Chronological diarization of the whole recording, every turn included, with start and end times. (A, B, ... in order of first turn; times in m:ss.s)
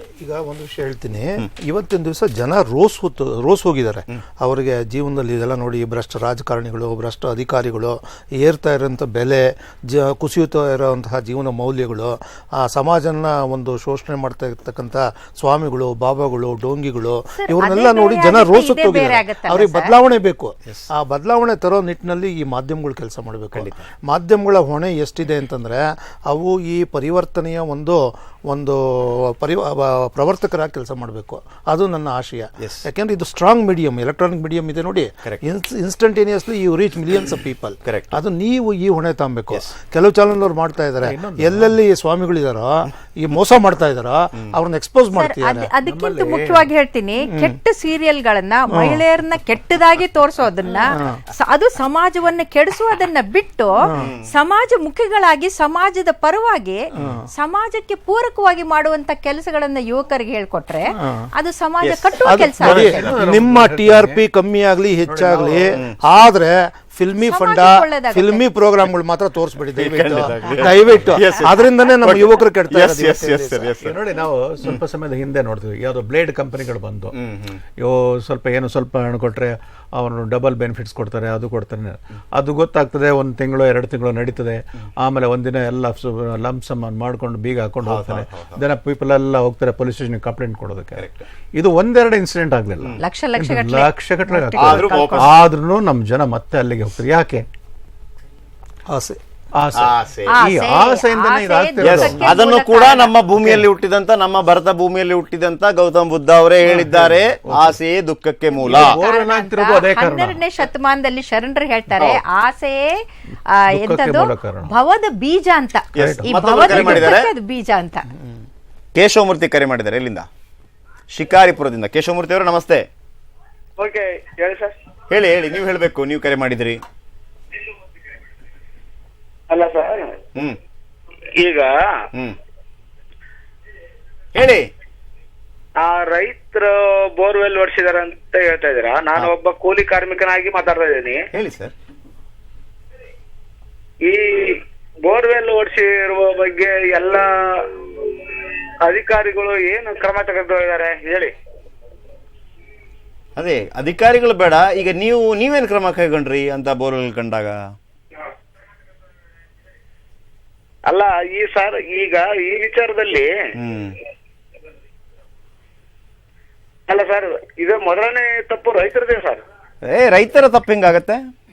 0:00.2-0:45.7 A
0:17.4-0:19.9 B
0:32.6-0:32.9 C
0:37.8-0:38.2 C
0:41.0-0:41.8 D
0:45.1-1:03.1 B
0:45.8-0:46.7 D
0:48.7-0:49.0 A
0:54.0-0:54.3 C
0:57.0-0:57.2 A
1:01.8-1:02.1 C
1:02.2-1:13.8 A
1:02.6-1:04.2 D
1:05.1-1:05.8 D
1:07.2-1:08.4 B
1:09.7-1:14.0 C
1:13.8-1:17.2 D
1:17.1-1:17.6 C
1:17.8-1:37.5 D
1:27.8-1:28.6 C
1:31.0-1:31.3 C
1:33.0-1:35.3 B
1:34.5-1:35.3 C
1:38.9-1:39.2 A
1:39.6-1:42.4 D
1:39.8-1:40.4 C
1:40.3-1:43.1 B
1:41.8-1:49.0 C
1:46.6-1:47.8 D
1:48.5-1:53.0 B
1:48.7-1:50.4 D
1:53.6-1:58.1 B
1:53.7-1:54.7 D
1:56.0-1:57.3 C
1:56.0-1:57.1 D
1:59.0-2:00.3 C
2:01.1-2:02.9 C
2:03.8-2:04.8 E
2:05.1-2:06.8 C
2:09.5-2:10.1 E
2:11.4-2:11.7 E
2:14.4-2:14.7 C
2:15.8-2:21.2 E
2:21.3-2:21.7 C
2:24.1-2:27.2 E
2:28.9-2:31.3 E
2:33.4-2:37.6 C
2:40.9-2:43.3 E
2:43.6-2:44.0 C
2:46.9-2:49.4 E
2:49.8-2:51.2 C